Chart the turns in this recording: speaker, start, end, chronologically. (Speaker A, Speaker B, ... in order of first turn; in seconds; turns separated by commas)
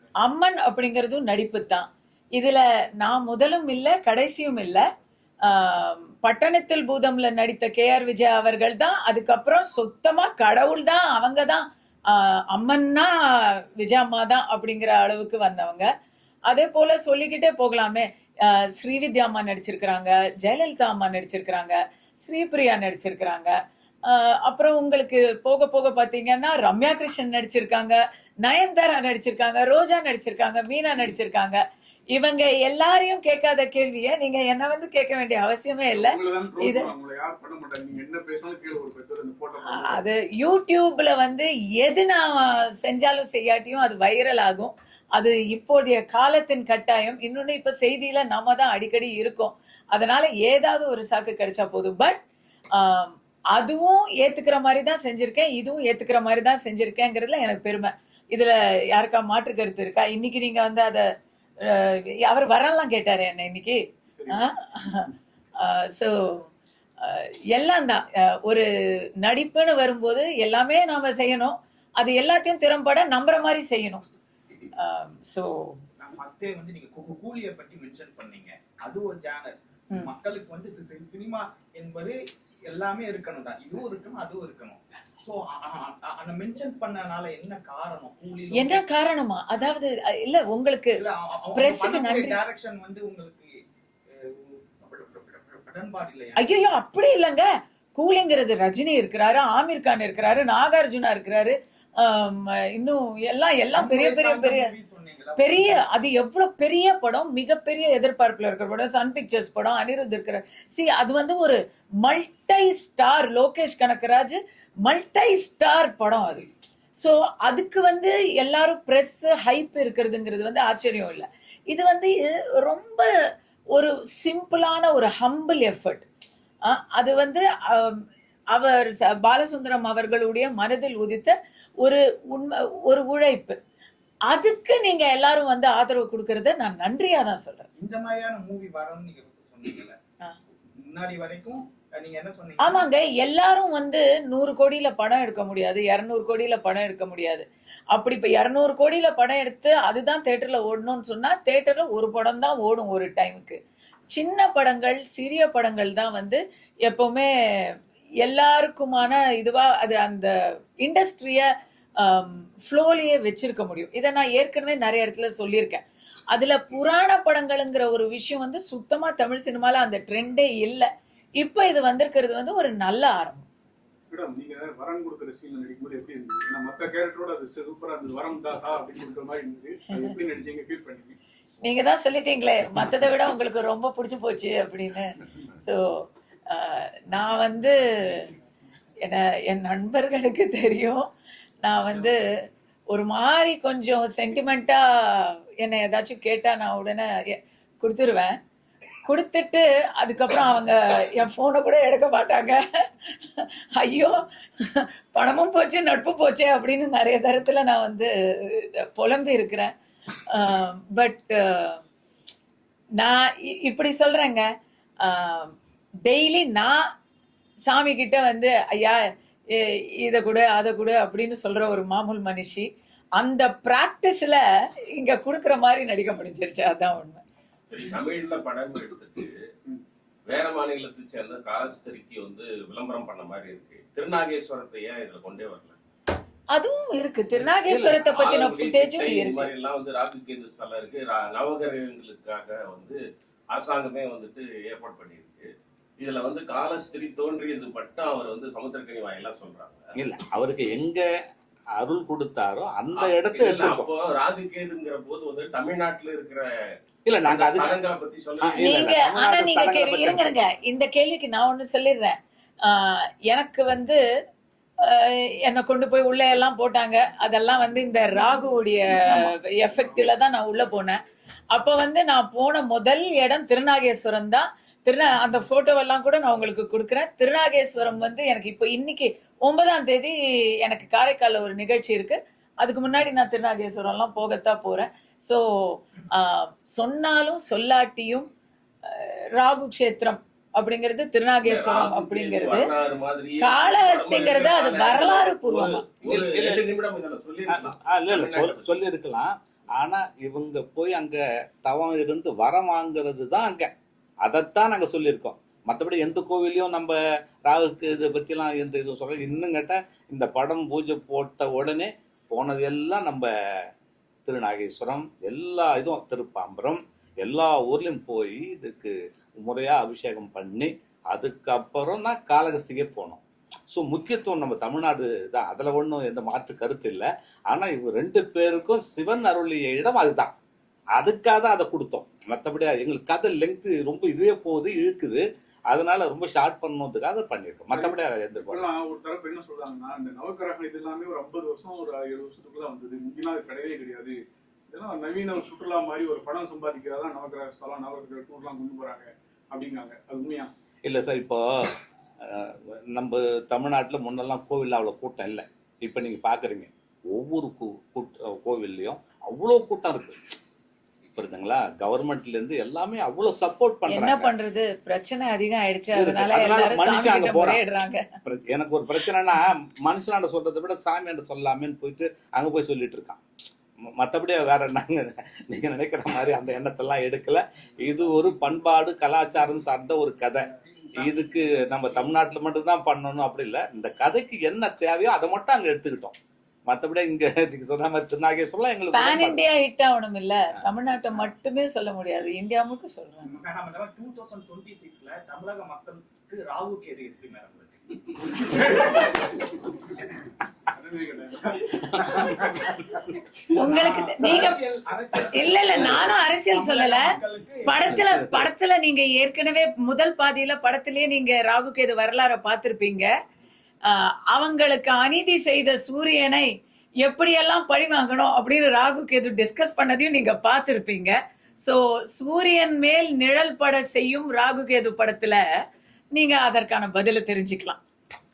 Speaker A: 0.2-4.8, Speaker A: 5.5-15.9, Speaker A: 16.5-23.6, Speaker A: 24.1-31.6, Speaker A: 32.1-36.9, Speaker B: 35.9-40.0, Speaker A: 39.7-52.2, Speaker A: 52.7-61.1, Speaker A: 61.6-65.1, Speaker B: 64.1-64.4, Speaker A: 65.6-66.5, Speaker A: 67.0-68.7, Speaker A: 69.2-74.0, Speaker A: 74.8-75.8, Speaker C: 76.0-88.8, Speaker A: 88.5-91.0, Speaker C: 91.0-93.6, Speaker A: 91.5-92.4, Speaker C: 94.1-96.5, Speaker A: 96.4-104.7, Speaker C: 103.7-105.8, Speaker A: 105.4-116.5, Speaker A: 117.0-123.1, Speaker A: 123.7-126.1, Speaker A: 126.7-133.6, Speaker A: 134.3-137.7, Speaker C: 137.8-140.0, Speaker C: 140.8-142.8, Speaker A: 142.6-153.6, Speaker A: 154.1-173.5, Speaker B: 174.1-181.2, Speaker A: 181.6-188.3, Speaker A: 189.0-191.1, Speaker A: 191.6-192.2, Speaker A: 192.9-198.4, Speaker A: 199.1-209.7, Speaker A: 210.3-211.8, Speaker A: 213.0-214.4, Speaker A: 215.0-215.5, Speaker A: 216.1-216.8, Speaker A: 217.7-224.4, Speaker A: 225.0-227.2, Speaker D: 227.7-229.3, Speaker D: 230.3-235.8, Speaker A: 236.5-239.5, Speaker D: 237.9-243.0, Speaker D: 243.5-249.8, Speaker E: 250.0-251.1, Speaker E: 251.8-253.9, Speaker D: 253.0-256.5, Speaker E: 257.1-257.8, Speaker D: 257.2-258.7, Speaker E: 258.4-260.4, Speaker A: 258.6-264.0, Speaker A: 264.8-271.0, Speaker A: 271.5-288.3, Speaker A: 288.9-292.7, Speaker D: 291.4-298.8, Speaker A: 293.4-295.8, Speaker E: 296.0-296.6, Speaker E: 297.5-303.7, Speaker E: 304.2-313.7, Speaker E: 314.2-323.2, Speaker E: 323.7-330.3, Speaker E: 330.9-338.7, Speaker B: 337.7-350.5, Speaker E: 350.8-360.3, Speaker E: 361.1-364.3, Speaker A: 363.9-368.1, Speaker E: 365.9-367.6, Speaker E: 368.2-373.2, Speaker E: 373.9-386.1, Speaker E: 386.7-389.4, Speaker A: 388.9-393.3, Speaker C: 393.2-399.1, Speaker B: 400.7-402.6, Speaker C: 403.5-408.0, Speaker A: 403.6-404.6, Speaker A: 405.3-407.1, Speaker A: 407.6-413.1, Speaker E: 407.9-408.4, Speaker A: 413.9-416.5, Speaker A: 417.0-425.4, Speaker A: 426.1-427.8